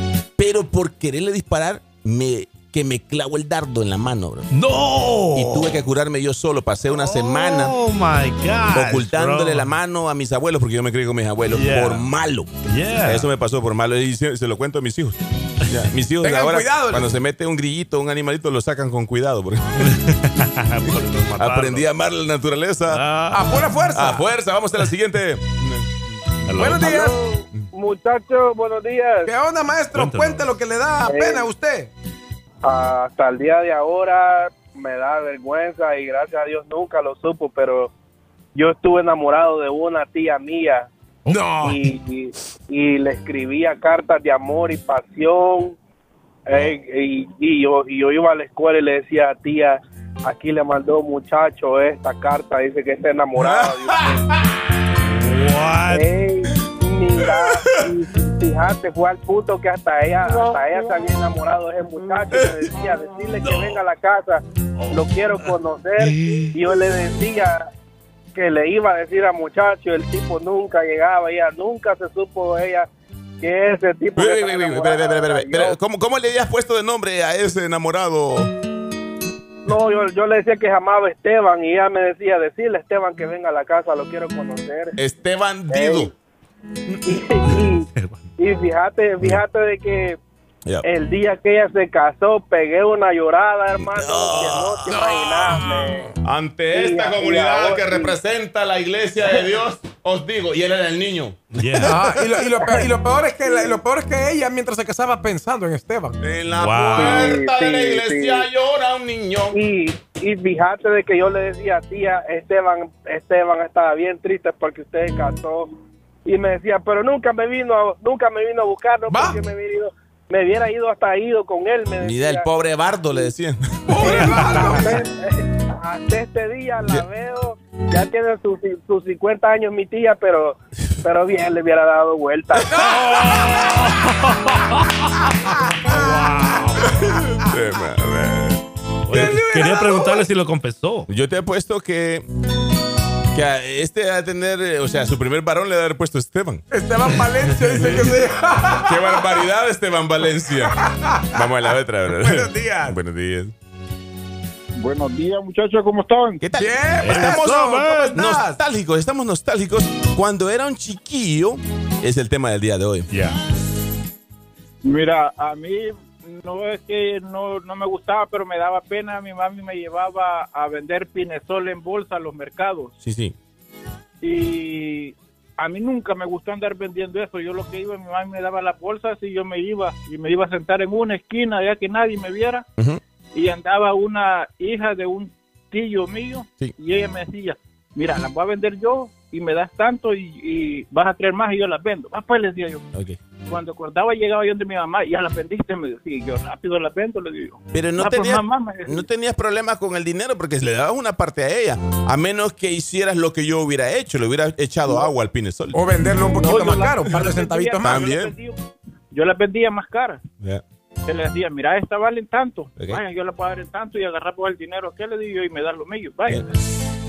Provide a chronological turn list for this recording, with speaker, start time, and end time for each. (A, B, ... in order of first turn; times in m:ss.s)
0:00.4-0:04.5 A
0:04.5-0:05.7 B
0:05.4-0:07.8 A
0:06.9-0:09.7 B
0:08.7-0:12.5 A
0:11.5-0:12.1 B
0:12.7-0:13.3 B
0:13.0-0:19.9 A
0:16.2-0:17.1 C
0:19.9-0:21.9 B
0:21.4-0:23.0 A
0:22.9-0:23.6 B
0:23.3-0:24.3 C
0:24.0-0:25.9 A
0:26.5-0:26.9 B
0:26.6-0:27.2 C
0:26.8-0:29.3 D
0:29.2-0:31.9 C
0:29.9-0:30.5 B
0:31.0-0:31.5 D
0:32.6-0:37.9 D
0:38.6-0:40.9 D
0:41.3-0:41.8 C
0:41.6-0:45.8 D
0:46.5-0:54.2 D
0:53.4-0:54.4 A
0:55.1-0:56.1 B
0:55.9-1:07.7 D
1:02.3-1:02.7 A
1:03.4-1:03.8 B
1:04.8-1:06.6 B
1:08.3-1:12.9 D
1:13.4-1:15.8 D
1:14.2-1:18.5 A
1:19.6-1:25.0 D
1:25.0-1:26.1 A
1:25.7-1:26.1 D
1:27.0-1:27.9 D
1:27.9-1:28.2 B
1:28.4-1:30.2 D
1:30.8-1:36.1 D
1:33.8-1:34.9 A
1:34.9-1:36.1 C
1:36.2-1:42.4 A
1:36.7-1:38.2 D
1:41.5-1:42.0 B
1:41.8-1:46.2 C
1:46.2-1:49.6 A
1:46.5-1:47.2 B
1:46.9-1:48.5 D
1:49.5-1:55.7 D
1:56.2-2:03.3 D
1:59.1-1:59.4 C
2:02.0-2:04.6 A
2:03.9-2:04.9 C
2:04.1-2:12.7 D
2:12.6-2:13.7 C
2:12.8-2:16.9 B
2:17.1-2:19.4 A
2:19.1-2:21.1 B
2:19.1-2:20.3 C
2:21.1-2:22.3 A
2:23.3-2:26.6 A
2:26.7-2:29.4 C
2:28.8-2:30.7 A
2:30.8-2:31.4 C
2:31.3-2:33.5 A
2:32.1-2:33.0 C
2:34.8-2:36.4 E
2:36.4-2:43.1 A
2:36.5-2:38.6 C
2:37.0-2:38.1 B
2:43.1-2:43.4 B
2:44.8-2:52.9 E
2:53.0-2:53.4 A
2:54.2-3:02.6 E
3:03.3-3:12.8 E
3:13.5-3:19.1 E
3:17.7-3:25.8 A
3:25.7-3:28.0 C
3:26.3-3:28.6 E
3:27.8-3:28.4 A
3:29.1-3:30.2 E
3:31.0-3:36.6 E
3:32.8-3:33.0 A